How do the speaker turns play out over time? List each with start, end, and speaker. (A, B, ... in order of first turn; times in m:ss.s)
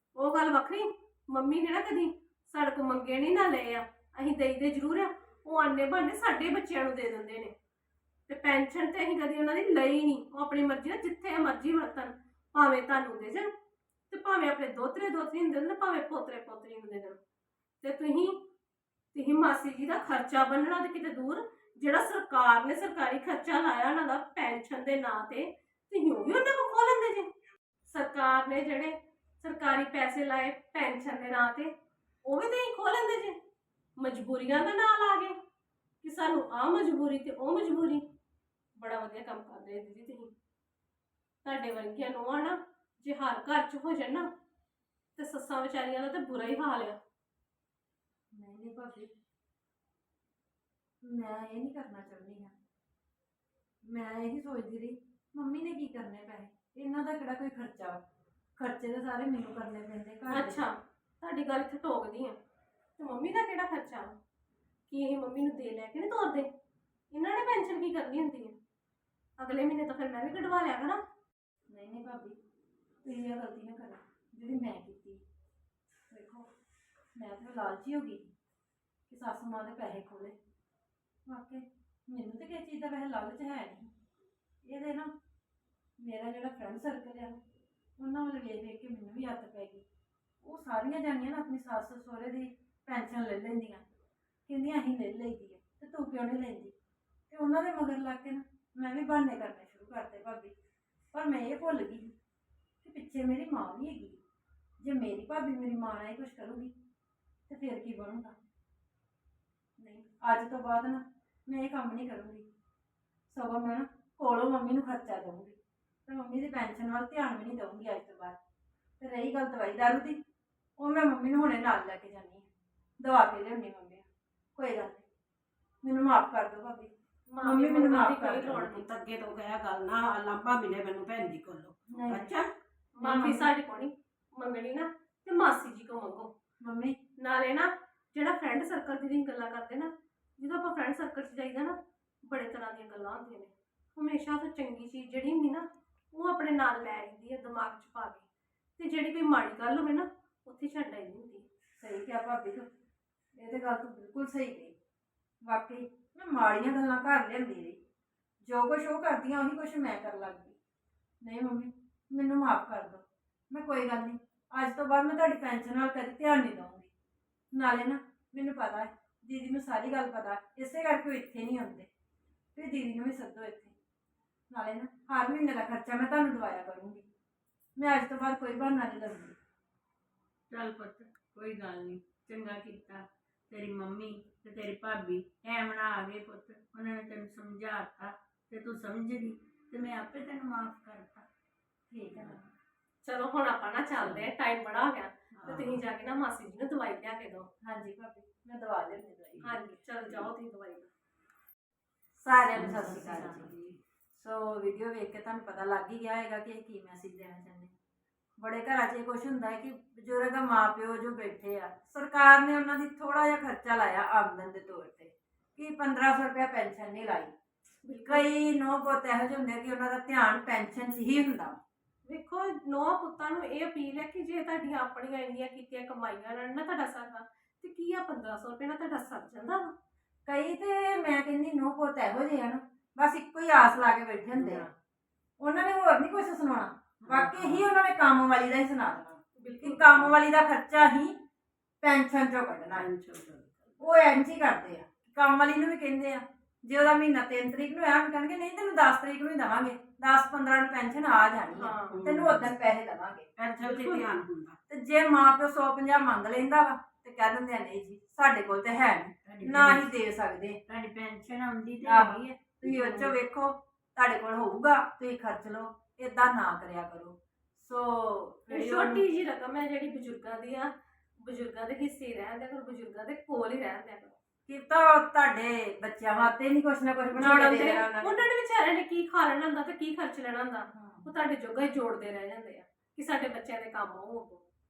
0:00.1-0:07.5 A
0:08.3-0:13.5 A
0:14.1-0:17.2 A
0:17.8-0:18.4 A
0:19.1-0:27.3 A
0:27.9-0:31.7 A
0:32.2-0:33.4 A
0:34.0-0:35.4 A
0:36.0-0:38.0 A
0:38.8-0:40.3 A
0:41.4-0:44.3 A
0:45.2-0:47.0 A
0:48.3-0:49.1 B
0:51.0-0:52.5 B
0:53.8-0:58.0 B
0:58.6-1:00.6 B
1:00.3-1:02.4 A
1:03.0-1:04.2 A
1:04.9-1:06.5 A
1:07.1-1:08.6 A
1:09.4-1:11.0 A
1:11.7-1:12.4 B
1:13.0-1:15.2 B
1:16.1-1:16.5 B
1:17.2-1:18.2 B
1:19.1-1:20.3 B
1:21.3-1:23.9 B
1:24.6-1:25.1 B
1:26.0-1:27.4 B
1:28.0-1:29.8 B
1:30.4-1:33.8 B
1:34.5-1:36.7 B
1:37.3-1:40.5 B
1:41.1-1:42.1 B
1:42.8-1:44.2 B
1:44.8-1:46.7 B
1:47.5-1:48.3 B
1:49.8-1:52.4 B
1:53.3-1:58.4 B
1:59.0-2:00.2 B
2:00.8-2:02.5 B
2:03.0-2:05.0 B
2:05.8-2:06.9 B
2:07.3-2:09.0 A
2:07.4-2:08.7 B
2:08.6-2:12.5 C
2:11.9-2:12.3 B
2:12.9-2:16.3 A
2:13.0-2:13.5 B
2:16.6-2:17.0 B
2:17.2-2:28.2 A
2:28.8-2:31.4 A
2:31.8-2:32.7 B
2:33.4-2:34.7 B
2:35.4-2:37.8 B
2:38.4-2:40.6 B
2:41.2-2:46.9 B
2:47.5-2:51.9 B
2:52.6-2:53.7 B
2:54.5-2:57.0 B
2:57.8-2:59.4 B
3:00.5-3:11.2 D
3:11.9-3:12.5 B
3:13.0-3:17.5 A
3:14.0-3:14.2 C
3:15.3-3:15.8 C
3:17.6-3:19.5 B
3:19.4-3:20.9 A
3:22.2-3:23.5 B
3:22.5-3:23.8 C
3:24.1-3:27.7 B
3:28.4-3:37.3 B
3:37.8-3:38.3 A
3:38.0-3:41.6 B
3:42.0-3:49.7 A
3:50.2-3:54.7 B
3:54.4-3:54.7 C
3:55.4-4:01.1 B
3:57.0-3:57.7 C
3:59.4-4:00.0 A
4:01.8-4:02.9 B
4:02.7-4:03.7 C
4:03.8-4:14.0 B
4:11.5-4:12.0 A
4:11.9-4:12.5 C
4:13.4-4:14.6 C
4:14.7-4:20.6 B
4:19.2-4:19.9 D
4:20.7-4:22.4 D
4:21.8-4:29.0 B
4:28.5-4:34.2 A
4:34.5-4:38.2 B
4:37.2-4:44.4 A
4:40.7-4:41.1 B